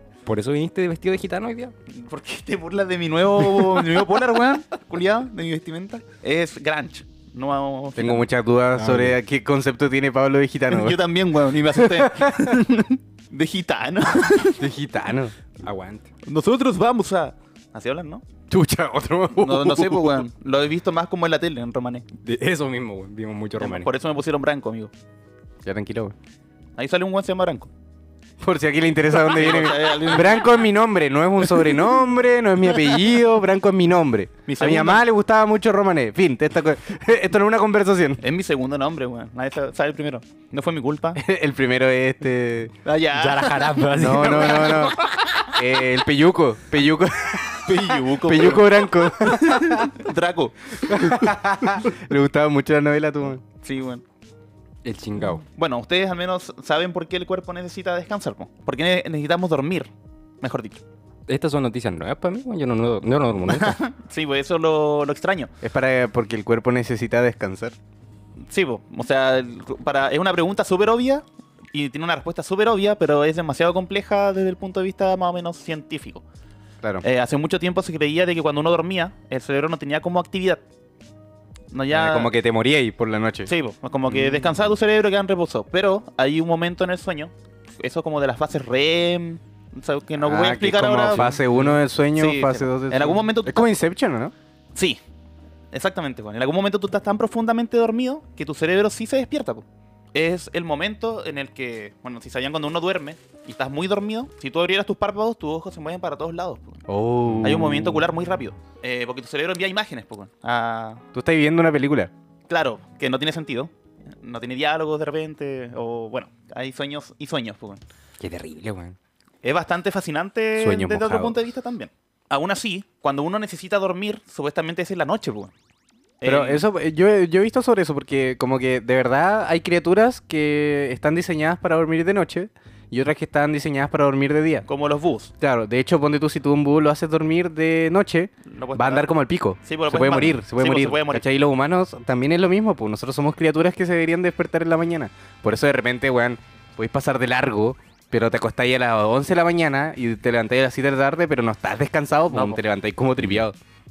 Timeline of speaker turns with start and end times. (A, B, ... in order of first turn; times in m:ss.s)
0:00.3-0:01.7 A
0:01.9-0:08.3 B
0:08.0-0:11.0 C
0:08.8-0:09.2 A
0:10.7-0:14.7 B
0:11.8-0:12.6 C
0:14.6-0:15.4 C
0:15.6-0:16.1 A
0:16.2-0:18.2 B
0:18.5-0:20.3 C
0:19.3-0:22.1 B
0:22.2-0:23.9 A
0:23.6-0:24.9 B
0:25.6-0:26.2 C
0:26.8-0:27.7 B
0:28.4-0:38.2 C
0:29.1-0:30.5 B
0:34.5-0:35.0 B
0:38.2-0:41.2 B
0:41.2-0:42.7 C
0:42.8-0:44.8 B
0:43.2-0:45.5 A
0:43.9-0:45.0 C
0:45.5-0:49.9 C
0:47.6-0:51.4 B
0:50.8-0:53.4 C
0:53.6-0:54.0 B
0:54.8-0:55.4 A
0:55.6-0:59.9 B
1:00.4-1:00.8 B
1:01.3-1:03.8 A
1:03.5-1:05.5 B
1:05.6-1:07.8 C
1:08.5-1:16.2 B
1:17.0-1:20.6 B
1:21.7-1:22.3 B
1:21.9-1:23.5 C
1:23.5-1:31.4 B
1:24.1-1:24.5 C
1:30.2-1:34.3 C
1:32.2-1:33.7 B
1:35.7-1:46.8 B
1:46.9-1:48.0 C
1:47.4-1:51.0 B
1:51.1-1:52.1 C
1:52.5-1:53.7 B
1:54.2-1:57.8 B
1:58.2-1:59.0 A
1:59.4-2:05.5 B
2:00.6-2:01.4 C
2:06.2-2:06.6 B
2:06.2-2:14.7 C
2:14.7-2:15.3 B
2:15.4-2:33.6 C
2:18.5-2:19.1 B
2:19.6-2:21.2 B
2:32.3-2:32.6 B